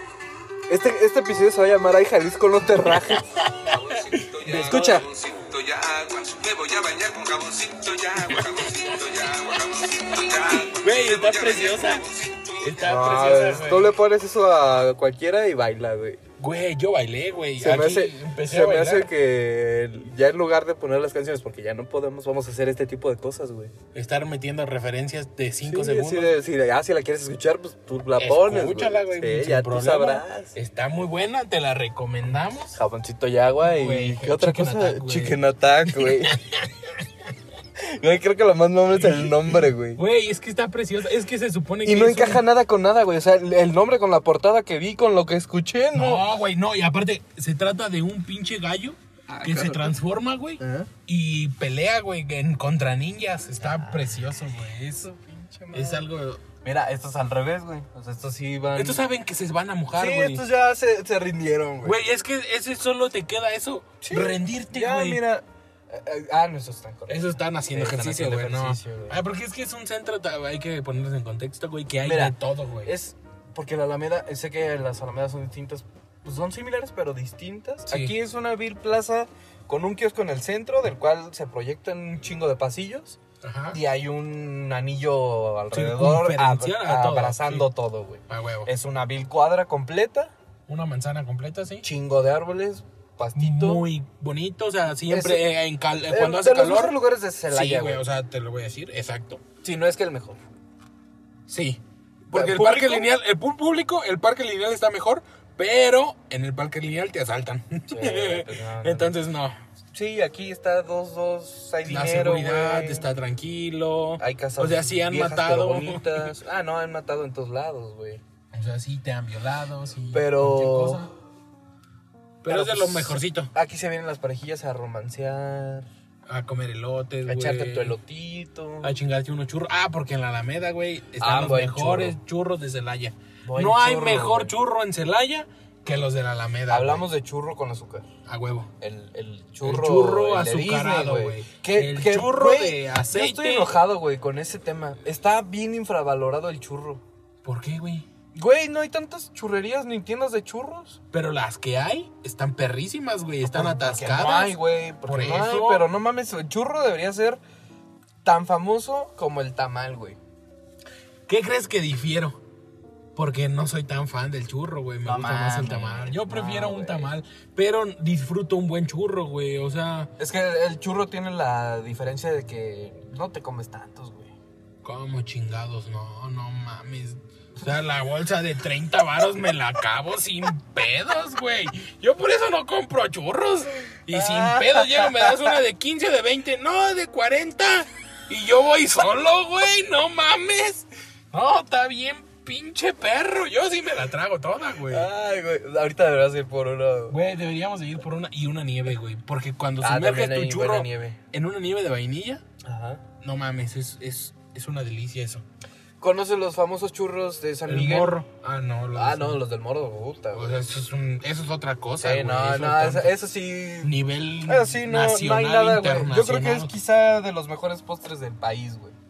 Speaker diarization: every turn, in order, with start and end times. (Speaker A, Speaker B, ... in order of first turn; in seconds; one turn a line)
Speaker A: 0.7-3.2
Speaker B: 3.4-5.0
Speaker C: 3.6-12.9
Speaker A: 4.5-5.1
Speaker B: 8.2-8.5
Speaker B: 10.6-12.1
Speaker B: 12.6-13.9
Speaker A: 12.8-16.2
Speaker B: 16.4-19.1
Speaker A: 17.6-23.7
Speaker B: 23.9-26.3
Speaker A: 25.6-30.5
Speaker B: 28.2-32.8
Speaker A: 32.7-36.4
Speaker B: 33.6-37.0
Speaker A: 37.8-40.0
Speaker B: 39.0-42.4
Speaker A: 41.8-46.3
Speaker B: 45.9-55.1
Speaker A: 49.3-50.0
Speaker A: 50.6-50.9
Speaker A: 53.6-56.1
Speaker B: 55.7-56.4
Speaker A: 56.6-59.0
Speaker B: 58.7-60.5
Speaker A: 59.9-62.0
Speaker B: 61.8-65.2
Speaker A: 64.0-69.2
Speaker B: 67.1-72.9
Speaker A: 72.0-83.2
Speaker B: 77.9-78.1
Speaker B: 83.4-83.8
Speaker A: 83.7-90.3
Speaker B: 85.7-87.7
Speaker B: 88.3-88.7
Speaker B: 90.7-91.8
Speaker A: 91.8-93.8
Speaker B: 93.3-97.0
Speaker A: 95.1-98.0
Speaker B: 97.5-99.4
Speaker A: 99.6-100.4
Speaker B: 101.5-109.6
Speaker A: 102.3-103.1
Speaker A: 107.9-109.2
Speaker A: 109.9-113.1
Speaker B: 111.8-116.3
Speaker A: 114.2-118.2
Speaker B: 118.5-121.1
Speaker A: 120.1-121.1
Speaker B: 122.4-123.5
Speaker A: 122.5-125.9
Speaker B: 126.3-128.0
Speaker A: 127.2-128.9
Speaker B: 128.8-137.1
Speaker A: 131.2-132.2
Speaker A: 133.4-134.5
Speaker A: 136.7-138.1
Speaker B: 138.2-138.7
Speaker A: 138.8-147.0
Speaker B: 139.6-143.8
Speaker B: 147.4-148.1
Speaker A: 148.3-151.0
Speaker B: 151.1-155.9
Speaker A: 153.4-157.4
Speaker A: 158.2-160.2
Speaker B: 161.3-162.4
Speaker B: 163.2-170.1
Speaker A: 165.0-167.1
Speaker A: 170.2-174.3
Speaker B: 174.8-195.1
Speaker A: 184.1-185.6
Speaker A: 194.9-197.2
Speaker B: 197.1-202.4
Speaker A: 199.8-201.2
Speaker A: 202.6-203.0
Speaker B: 203.2-205.4
Speaker A: 206.0-208.2
Speaker B: 207.7-209.4
Speaker A: 208.9-210.6
Speaker B: 210.3-213.1
Speaker A: 212.0-218.9
Speaker B: 213.8-216.7